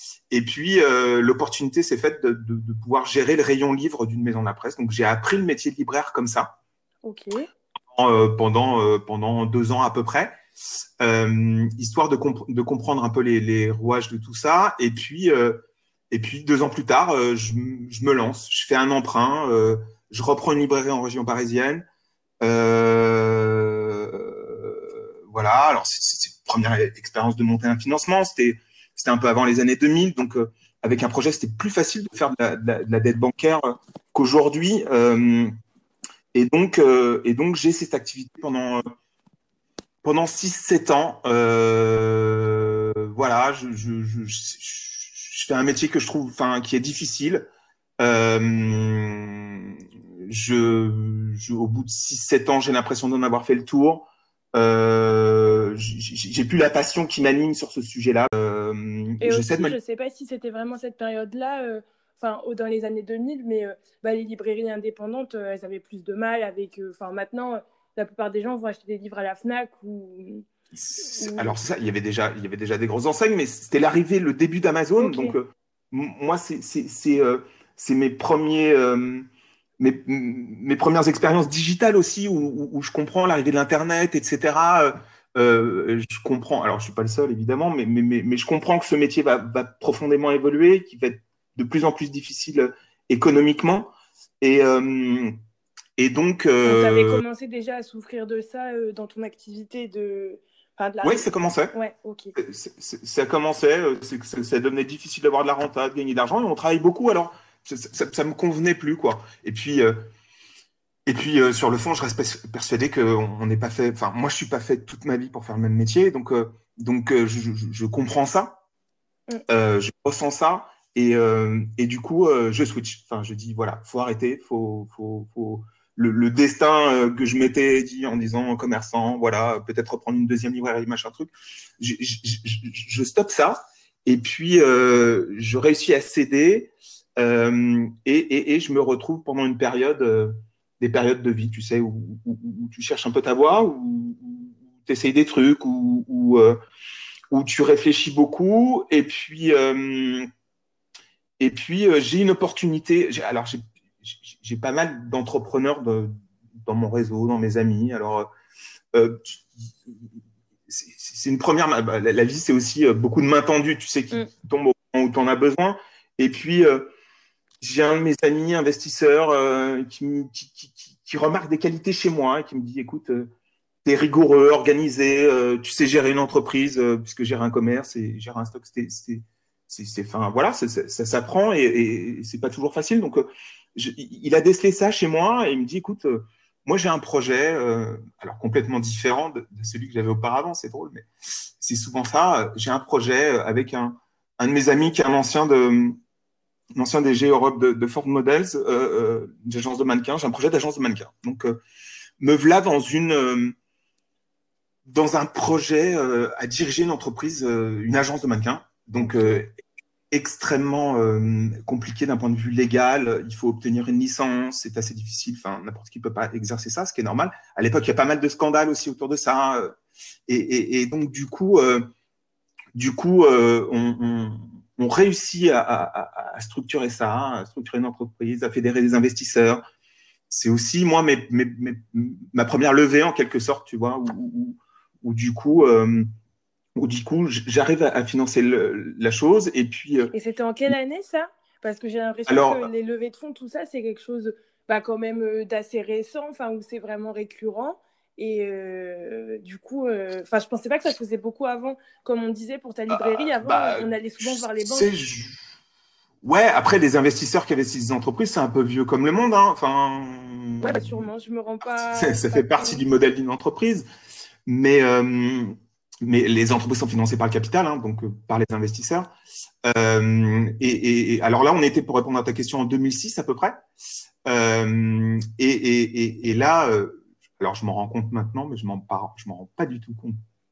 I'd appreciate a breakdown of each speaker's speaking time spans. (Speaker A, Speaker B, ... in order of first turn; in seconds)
Speaker A: 0.3-6.5, 7.9-10.4, 11.0-21.8, 22.4-35.5, 36.3-38.8, 40.0-47.5, 48.0-59.8, 70.8-79.2, 79.8-95.4, 96.0-97.2, 101.0-101.7, 102.3-110.1, 111.1-118.6, 119.5-146.6, 147.3-150.3, 151.4-158.3, 158.9-160.1, 160.7-166.9, 167.6-173.3, 173.8-191.1, 191.6-196.0, 196.8-201.6, 202.2-203.5, 204.8-209.5, 210.1-219.7, 220.3-221.9, 222.7-229.6, 230.3-236.1, 236.8-240.1, 242.3-242.7, 252.9-255.4, 256.2-261.0, 261.9-263.9, 264.4-269.1, 269.6-273.6, 274.2-280.2
Speaker B: 7.0-7.5, 59.2-70.5, 71.0-71.5, 75.0-75.4, 96.6-102.3, 209.0-209.4, 240.1-254.9, 260.6-262.8